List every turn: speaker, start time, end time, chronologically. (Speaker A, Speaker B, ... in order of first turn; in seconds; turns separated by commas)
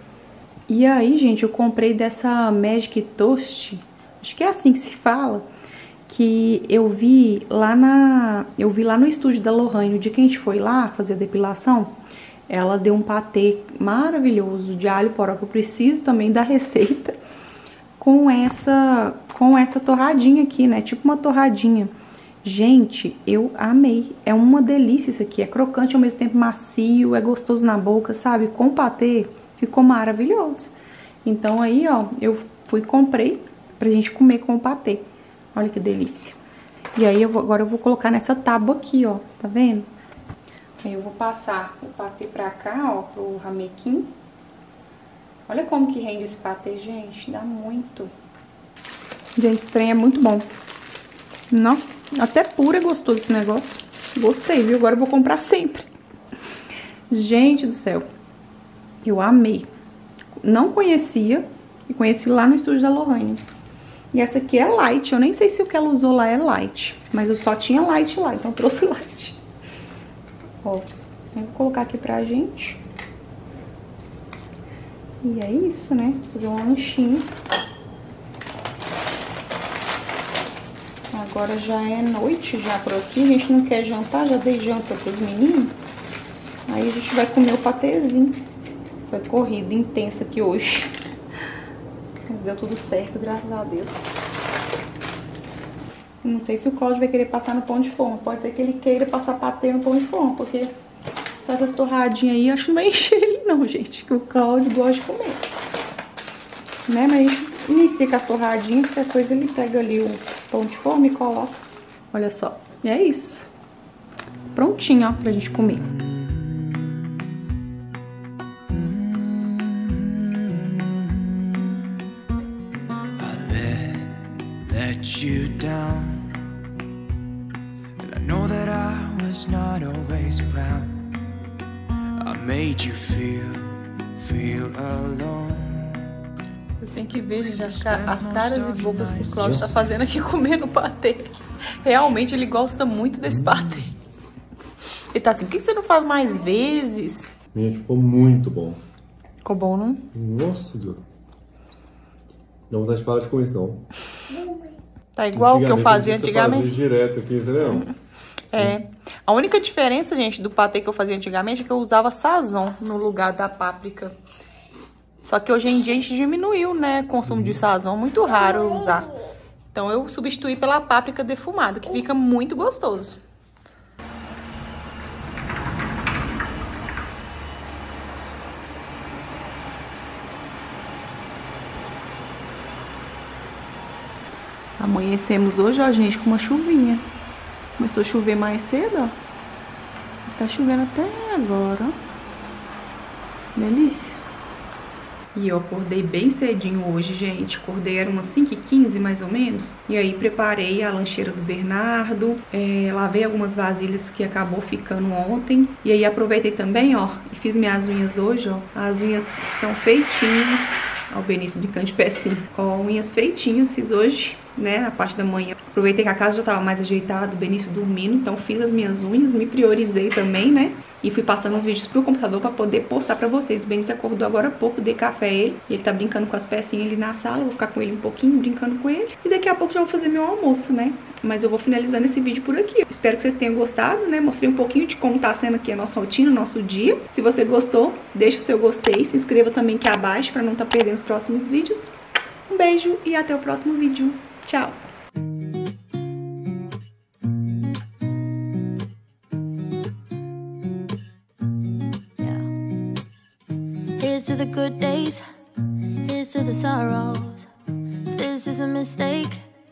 Speaker A: 0.7-5.5, Speaker A: 6.1-11.9, Speaker A: 12.5-17.1, Speaker A: 18.0-21.9, Speaker A: 22.4-30.7, Speaker A: 31.2-36.4, Speaker A: 36.9-39.9, Speaker A: 40.8-44.1, Speaker A: 45.5-48.1, Speaker A: 49.4-50.5, Speaker A: 51.5-55.9, Speaker A: 57.1-58.1, Speaker A: 59.0-59.7, Speaker A: 60.4-63.4, Speaker A: 64.1-69.4, Speaker A: 70.6-72.8, Speaker A: 75.2-77.3, Speaker A: 81.1-85.8, Speaker A: 86.7-88.4, Speaker A: 89.1-90.9, Speaker A: 92.3-94.2, Speaker A: 96.2-100.7, Speaker A: 101.4-105.4, Speaker A: 106.9-111.6, Speaker A: 112.1-113.5, Speaker A: 114.5-115.9, Speaker B: 115.9-117.2, Speaker B: 118.7-122.0, Speaker B: 123.2-126.4, Speaker B: 128.0-130.9, Speaker B: 132.2-136.1, Speaker A: 136.8-143.9, Speaker B: 137.5-139.8, Speaker A: 145.1-147.3, Speaker C: 147.5-148.8, Speaker A: 149.4-150.1, Speaker C: 150.1-151.0, Speaker C: 152.7-153.8, Speaker A: 155.1-156.7, Speaker C: 155.3-157.9, Speaker A: 158.5-164.1, Speaker A: 165.2-169.2, Speaker A: 169.7-173.2, Speaker A: 184.8-187.0, Speaker A: 187.8-189.1, Speaker A: 190.3-191.9, Speaker A: 193.5-194.2, Speaker A: 195.3-241.9, Speaker A: 242.5-244.8, Speaker D: 252.2-252.4, Speaker D: 254.0-255.2, Speaker D: 256.0-257.5, Speaker D: 258.1-259.4